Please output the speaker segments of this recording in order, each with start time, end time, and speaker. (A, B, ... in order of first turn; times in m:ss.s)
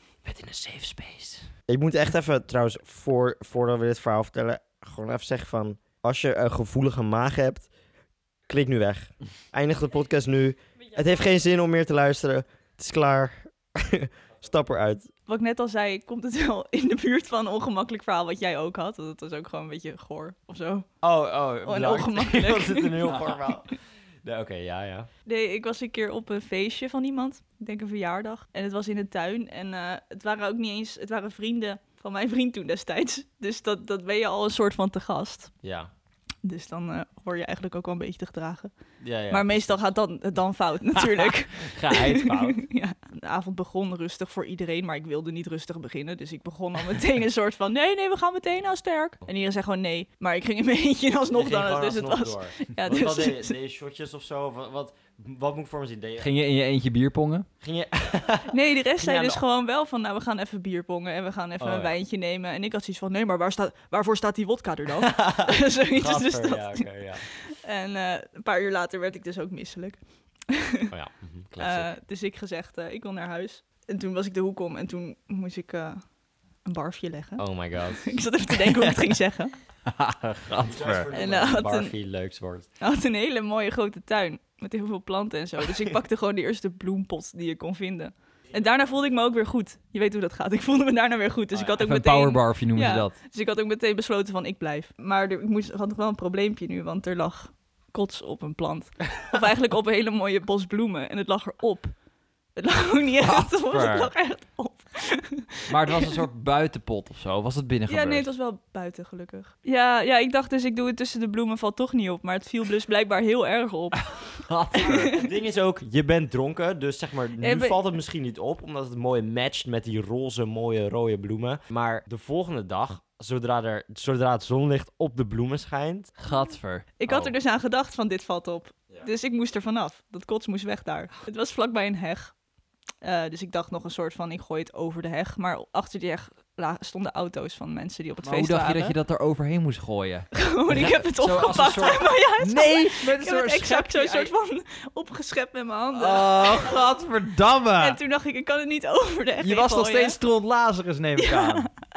0:00.3-0:01.4 A
0:01.7-0:07.7 B
0:08.5-0:15.1 B
0:15.3-0:20.9 C
0:21.0-0:23.7 B
0:21.6-0:23.5 C
0:24.2-0:25.1 B
0:25.2-0:35.5 C
0:35.6-0:35.9 B
0:36.4-0:38.7 C
0:39.0-0:39.7 B
0:39.3-0:53.6 C
0:41.6-0:42.6 A
0:51.3-0:56.3 B
0:56.2-0:57.5 A
0:57.6-0:59.4 B
0:58.5-1:06.8 C
1:01.6-1:01.9 B
1:05.0-1:07.2 B
1:07.4-1:10.9 C
1:10.9-1:11.9 B
1:11.6-1:16.0 C
1:16.6-1:19.5 C
1:17.4-1:18.9 B
1:19.9-1:21.1 A
1:20.6-1:22.7 B
1:21.1-1:21.9 C
1:22.8-1:41.9 C
1:31.8-1:33.1 A
1:42.6-1:46.2 C
1:43.4-1:44.1 A
1:45.7-1:48.2 A
1:47.9-1:54.3 C
1:54.4-1:55.1 A
1:54.8-1:55.3 C
1:55.0-2:06.1 B
1:57.4-1:57.8 C
2:06.2-2:06.8 A
2:07.0-2:12.3 C
2:07.1-2:07.3 B
2:13.0-2:19.0 C
2:18.2-2:24.3 A
2:20.3-2:26.8 C
2:25.9-2:28.0 A
2:27.8-2:30.2 C
2:29.4-2:31.7 A
2:31.2-2:31.7 C